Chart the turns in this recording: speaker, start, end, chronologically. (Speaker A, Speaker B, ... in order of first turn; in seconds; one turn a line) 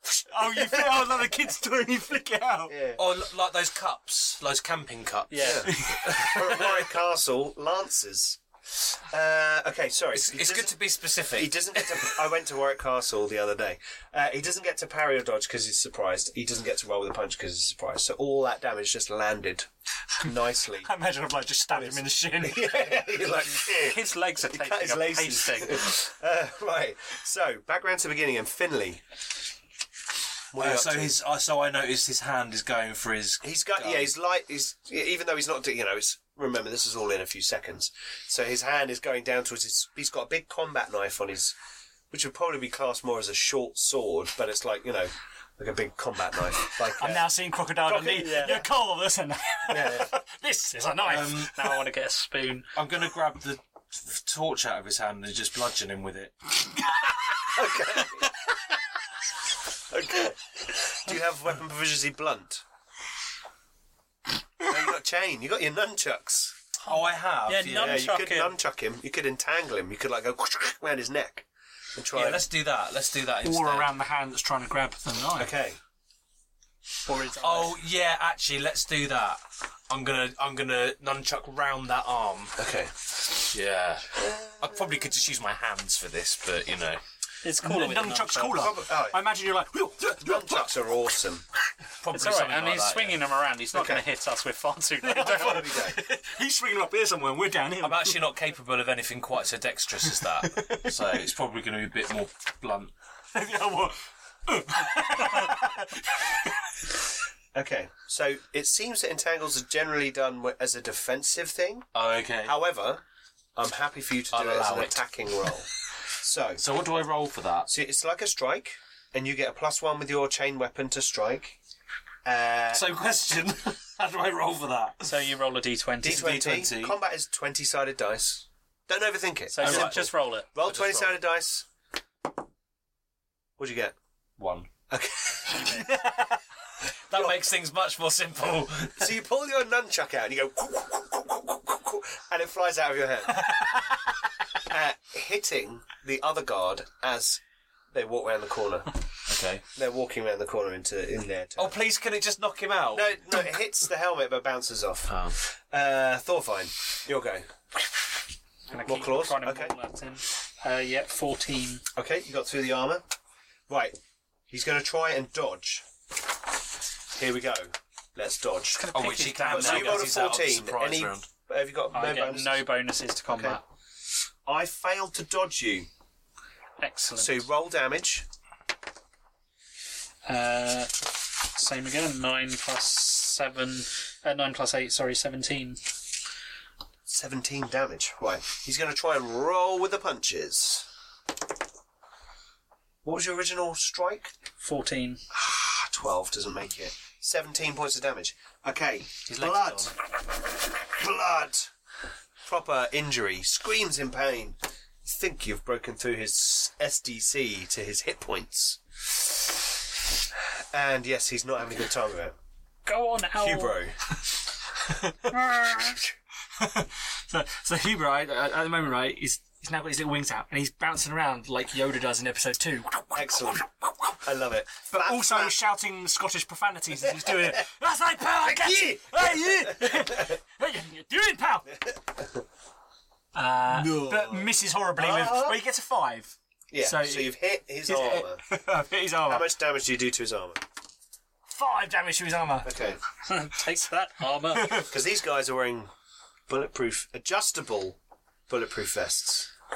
Speaker A: 0.2-2.7
Speaker B: 0.5-1.2
Speaker B: 2.7-3.0
Speaker C: 3.0-5.8
Speaker D: 5.3-5.7
Speaker B: 5.4-19.7
Speaker A: 5.7-6.8
Speaker C: 10.1-12.1
Speaker B: 20.2-20.9
Speaker A: 20.8-22.9
Speaker B: 21.7-29.0
Speaker D: 23.6-25.9
Speaker B: 30.5-31.1
Speaker C: 30.6-34.1
Speaker B: 33.4-41.5
Speaker B: 42.1-48.6
Speaker A: 46.9-51.8
Speaker D: 48.2-48.6
Speaker B: 49.7-50.1
Speaker C: 51.0-51.6
Speaker D: 51.4-52.7
Speaker C: 52.7-56.4
Speaker B: 57.5-58.4
Speaker B: 59.9-62.6
Speaker B: 64.6-66.5
Speaker C: 66.8-68.1
Speaker D: 67.5-68.5
Speaker B: 67.7-72.5
Speaker C: 72.1-73.9
Speaker A: 73.4-75.5
Speaker B: 75.3-75.8
Speaker A: 77.0-77.8
Speaker C: 77.3-82.5
Speaker B: 82.5-83.1
Speaker C: 83.5-87.0
Speaker B: 84.1-85.1
Speaker D: 87.4-88.7
Speaker A: 87.6-90.7
Speaker B: 88.5-89.2
Speaker B: 90.2-91.4
Speaker C: 92.0-93.2
Speaker D: 92.1-95.8
Speaker B: 93.7-94.0
Speaker A: 95.0-98.2
Speaker B: 95.1-96.0
Speaker C: 97.8-102.9
Speaker A: 100.2-100.9
Speaker A: 103.3-106.6
Speaker B: 107.5-111.9
Speaker C: 111.9-112.5
Speaker B: 112.4-113.0
Speaker B: 113.5-116.6
Speaker C: 114.3-115.0
Speaker C: 116.6-117.7
Speaker B: 117.7-121.6
Speaker B: 122.2-122.8
Speaker C: 122.7-125.1
Speaker D: 125.0-126.4
Speaker B: 126.0-131.7
Speaker C: 126.0-127.0
Speaker D: 129.5-130.5
Speaker C: 129.6-130.1
Speaker C: 130.6-131.2
Speaker B: 133.6-133.9
Speaker C: 134.4-134.7
Speaker B: 134.9-135.9
Speaker C: 137.1-139.1
Speaker B: 137.1-137.4
Speaker B: 138.9-143.8
Speaker A: 143.5-143.8
Speaker B: 144.6-148.9
Speaker C: 149.2-149.6
Speaker B: 149.7-151.8
Speaker C: 151.6-153.1
Speaker B: 152.9-157.5
Speaker C: 155.1-155.3
Speaker D: 158.7-161.8
Speaker B: 158.8-159.7
Speaker B: 161.9-163.0
Speaker B: 163.7-164.0
Speaker B: 164.5-165.8
Speaker B: 167.1-168.9
Speaker D: 168.7-170.2
Speaker C: 168.9-171.3
Speaker B: 169.4-172.6
Speaker D: 171.9-173.6
Speaker B: 173.3-173.6
Speaker B: 174.4-175.9
Speaker D: 176.8-177.4
Speaker B: 177.2-178.2
Speaker D: 180.2-185.9
Speaker B: 187.1-190.9
Speaker B: 193.0-194.3
Speaker D: 194.6-195.2
Speaker B: 195.3-200.0
Speaker C: 199.3-199.9
Speaker B: 200.6-201.7
Speaker B: 202.4-209.3
Speaker B: 210.7-212.3
Speaker D: 212.8-213.8
Speaker B: 213.4-213.9
Speaker D: 215.3-216.0
Speaker A: 216.6-224.1
Speaker B: 223.1-225.5
Speaker A: 224.9-231.7
Speaker B: 227.1-227.6
Speaker B: 228.3-230.4
Speaker B: 231.7-232.4
Speaker A: 233.3-237.3
Speaker B: 233.7-235.6
Speaker B: 236.7-238.4
Speaker A: 237.8-239.5
Speaker B: 239.2-240.6
Speaker A: 241.5-242.7
Speaker B: 242.6-243.0
Speaker D: 243.2-244.8
Speaker A: 244.5-244.9
Speaker B: 244.8-245.9
Speaker B: 246.5-248.0
Speaker B: 248.5-249.5